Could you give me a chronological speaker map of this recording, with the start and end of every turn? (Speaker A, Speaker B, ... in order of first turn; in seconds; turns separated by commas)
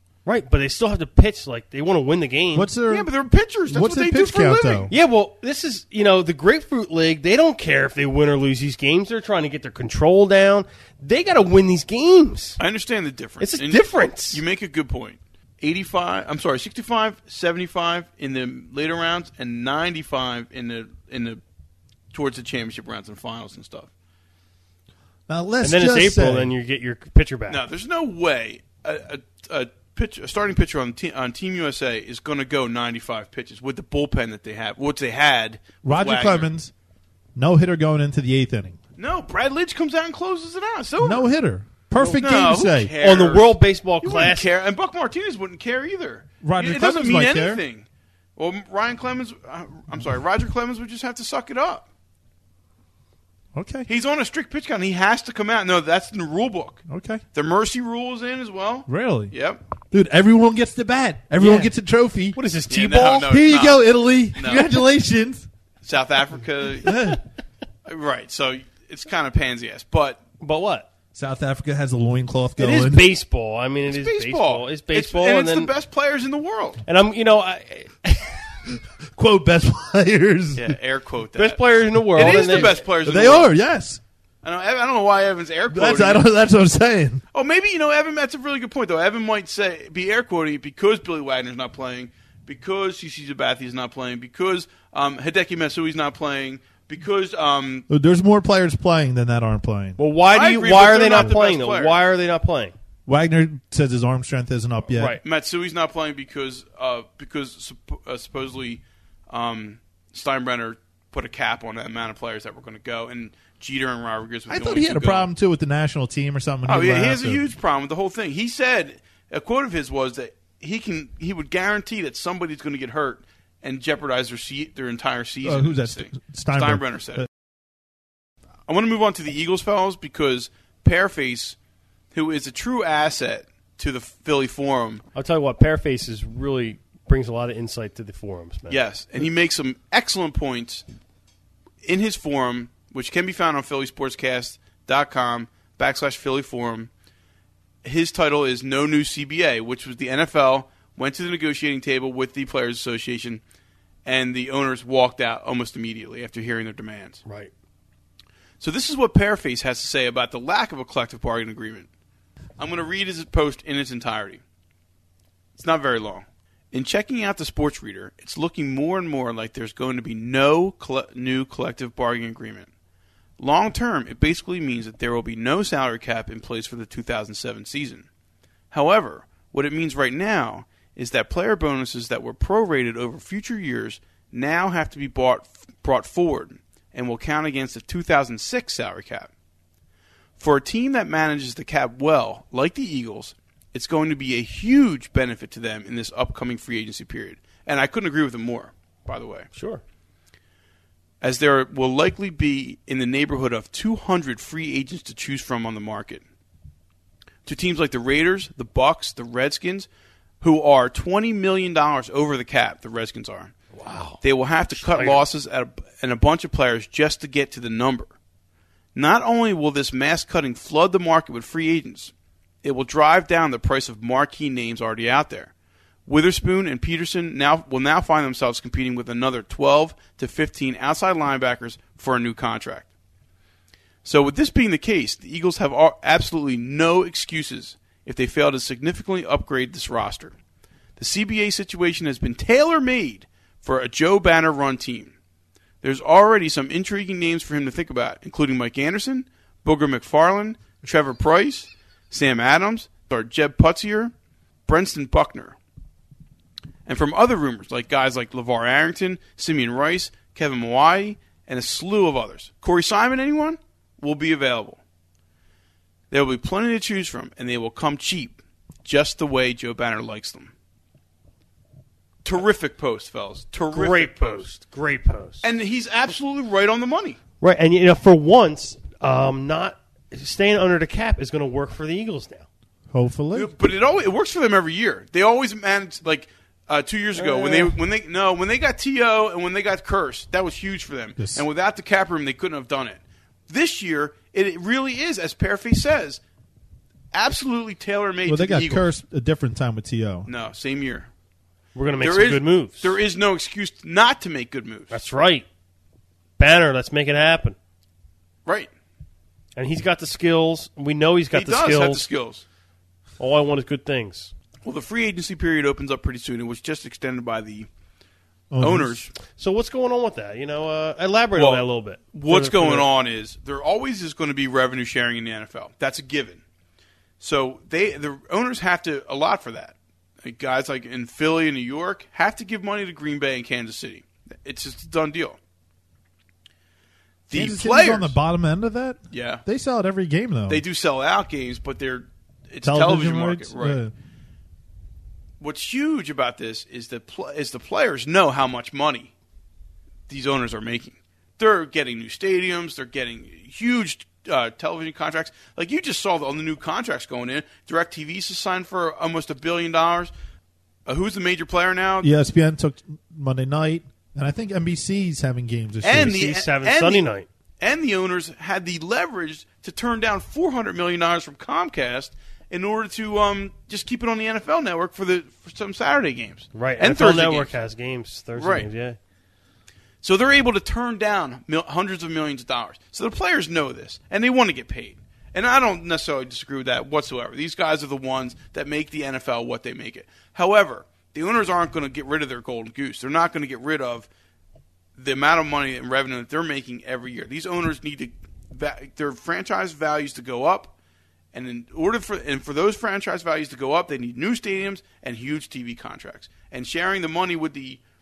Speaker A: 0.2-2.7, Speaker B: 2.5-3.1, Speaker C: 2.9-4.9, Speaker B: 3.7-4.9, Speaker A: 4.9-12.6, Speaker C: 12.6-21.4, Speaker A: 13.4-14.4, Speaker C: 22.1-23.9, Speaker B: 25.3-26.5, Speaker A: 25.6-27.6, Speaker C: 27.5-36.5, Speaker B: 35.8-36.7, Speaker B: 37.4-38.8, Speaker C: 39.0-41.3, Speaker B: 41.0-42.9, Speaker C: 42.1-47.9, Speaker A: 43.0-44.5, Speaker B: 46.4-47.6, Speaker C: 48.4-51.9, Speaker B: 53.5-53.9, Speaker C: 53.9-59.6, Speaker B: 56.9-57.2, Speaker B: 58.9-59.3, Speaker B: 59.9-62.4, Speaker A: 61.4-61.7, Speaker A: 62.3-63.3, Speaker C: 62.7-64.8, Speaker B: 63.2-65.5, Speaker C: 65.8-67.1, Speaker B: 66.8-67.2, Speaker C: 67.9-70.2, Speaker A: 70.4-70.9, Speaker B: 71.1-73.1, Speaker A: 72.6-75.7, Speaker C: 73.9-76.8, Speaker A: 76.9-78.4, Speaker B: 79.1-80.8, Speaker C: 80.5-83.5, Speaker A: 81.4-82.8, Speaker B: 82.2-84.0, Speaker C: 84.4-86.3, Speaker B: 85.7-87.2, Speaker C: 87.3-97.9, Speaker B: 97.9-100.0, Speaker A: 100.0-102.8, Speaker C: 100.3-102.0, Speaker B: 103.1-105.2, Speaker A: 104.9-105.2, Speaker C: 105.2-115.3, Speaker B: 114.5-117.4, Speaker C: 116.7-127.3, Speaker B: 125.4-127.3, Speaker C: 128.7-131.6, Speaker C: 132.1-135.0, Speaker A: 135.2-138.8, Speaker C: 138.7-140.8, Speaker C: 141.8-146.9, Speaker C: 147.8-153.4, Speaker C: 154.1-157.2, Speaker A: 157.2-157.5, Speaker C: 158.6-161.9, Speaker C: 162.6-164.4, Speaker C: 165.6-172.7, Speaker C: 173.4-178.1, Speaker C: 178.7-189.3, Speaker C: 190.4-199.5, Speaker A: 199.5-199.8, Speaker C: 201.2-206.2, Speaker C: 207.5-209.9, Speaker C: 210.4-213.5, Speaker A: 213.7-214.2, Speaker C: 214.2-218.1, Speaker A: 214.8-215.2, Speaker C: 218.9-222.1, Speaker C: 222.6-225.5, Speaker C: 226.1-232.9, Speaker C: 234.1-240.3, Speaker C: 241.0-245.1, Speaker C: 245.8-254.1, Speaker C: 254.7-255.6, Speaker C: 256.9-264.8, Speaker C: 266.1-270.5, Speaker C: 272.2-274.5, Speaker A: 273.7-275.5, Speaker C: 275.4-277.2, Speaker A: 277.4-282.5, Speaker B: 282.9-283.5, Speaker C: 283.4-296.2, Speaker A: 287.2-287.8, Speaker B: 291.2-291.4, Speaker C: 297.1-298.9, Speaker B: 298.3-300.3, Speaker C: 300.3-301.1, Speaker A: 301.8-302.9, Speaker C: 302.0-305.0, Speaker A: 304.9-305.5, Speaker A: 306.4-307.6, Speaker A: 309.6-312.0, Speaker C: 311.3-312.4, Speaker A: 313.2-314.3, Speaker C: 314.6-317.7, Speaker B: 318.5-319.0, Speaker C: 318.6-319.1, Speaker A: 319.4-322.9, Speaker C: 321.4-326.4, Speaker C: 327.2-335.4, Speaker C: 337.3-338.2, Speaker B: 337.3-340.6, Speaker C: 339.1-339.4, Speaker C: 340.5-343.8, Speaker B: 342.6-343.9, Speaker C: 345.4-349.1, Speaker C: 350.1-360.1, Speaker C: 360.9-362.1, Speaker B: 362.0-366.2, Speaker C: 365.8-367.1, Speaker A: 365.9-367.3, Speaker C: 367.6-377.5, Speaker A: 376.6-379.0, Speaker C: 378.4-378.7, Speaker C: 380.0-394.1, Speaker C: 395.0-400.7, Speaker C: 401.3-407.8